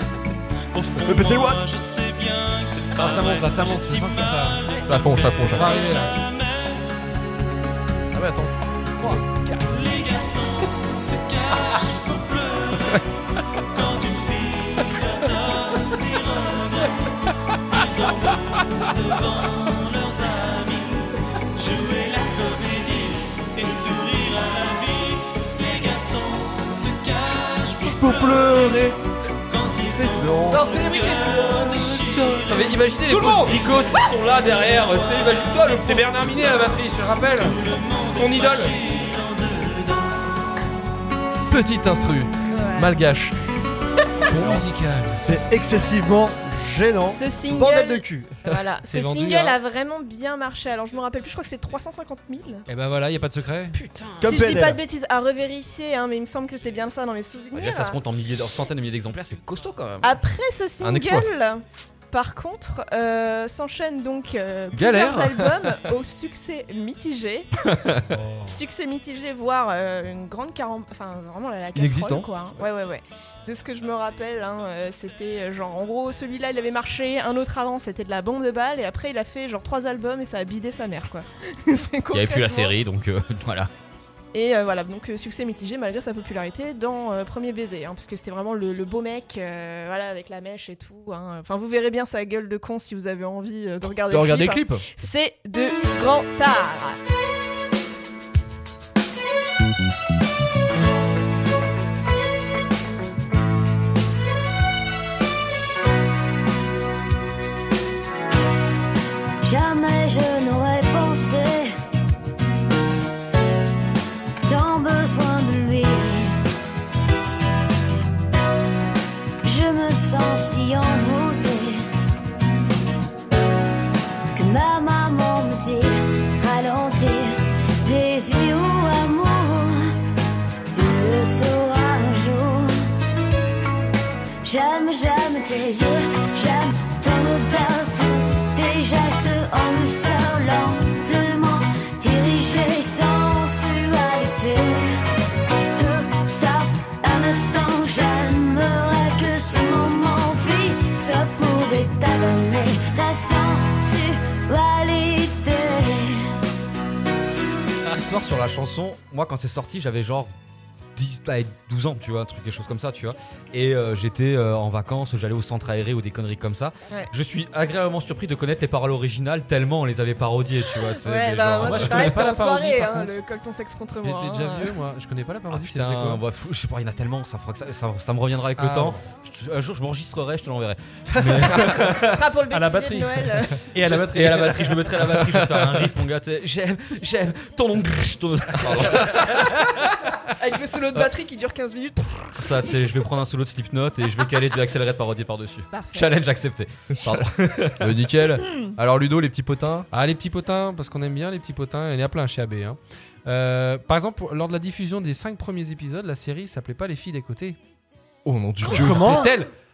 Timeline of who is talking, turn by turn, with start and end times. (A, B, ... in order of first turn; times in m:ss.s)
0:00.7-0:06.9 A
0:01.0-0:01.6 B
0:03.0-0:04.6 C
0:04.9-0:05.7 D
0:05.5-0:06.2 C
0:08.1-0:09.2 D
0:09.0-0:09.6 C
0:09.6-0:13.0 A
0:13.7-0:17.1 A
0:17.7-0:28.9 A
0:27.8-0:29.0 D
0:29.5-0:35.8 A
0:29.9-0:30.7 D
0:30.5-0:31.6 E
0:32.1-0:32.7 D
0:32.5-0:36.1 E
0:35.8-0:37.6 C
0:37.2-0:40.4 A
0:38.2-0:38.6 C
0:41.5-0:43.4 D
0:42.5-0:42.9 F
0:44.3-0:45.2 C
0:45.1-0:48.4 B
0:47.0-0:52.7 F
0:48.8-0:49.6 C
0:52.7-0:53.8 C
0:53.7-0:54.6 E
0:54.2-0:54.8 B
0:54.2-0:58.0 F
0:57.5-1:00.2 E
1:00.0-1:07.5 F
1:00.8-1:01.3 D
1:04.7-1:05.5 D
1:07.6-1:08.2 E
1:08.1-1:08.6 C
1:08.4-1:22.7 F
1:11.7-1:12.2 B
1:22.1-1:23.7 E
1:24.3-1:37.0 F
1:34.1-1:34.9 D
1:49.4-1:51.8 G
1:54.4-1:56.4 G
1:59.4-2:01.8 G
2:04.3-2:09.9 G
2:10.7-2:12.9 G
2:14.4-2:25.0 G
2:25.8-2:36.4 G
2:37.8-2:40.3 E
2:40.9-2:52.2 E
2:50.7-2:54.7 F
2:51.6-2:53.2 C
2:54.0-2:56.2 C
2:55.5-3:02.2 E
2:58.6-2:59.0 C
3:01.2-3:01.6 B
3:02.0-3:03.7 F
3:02.5-3:05.1 C
3:03.8-3:09.7 E
3:10.3-3:12.7 F
3:12.3-3:18.0 E
3:15.7-3:16.1 F
3:17.8-3:19.9 D
3:19.9-3:27.6 C
3:28.2-3:29.2 D
3:28.6-3:29.5 C
3:28.7-3:29.3 B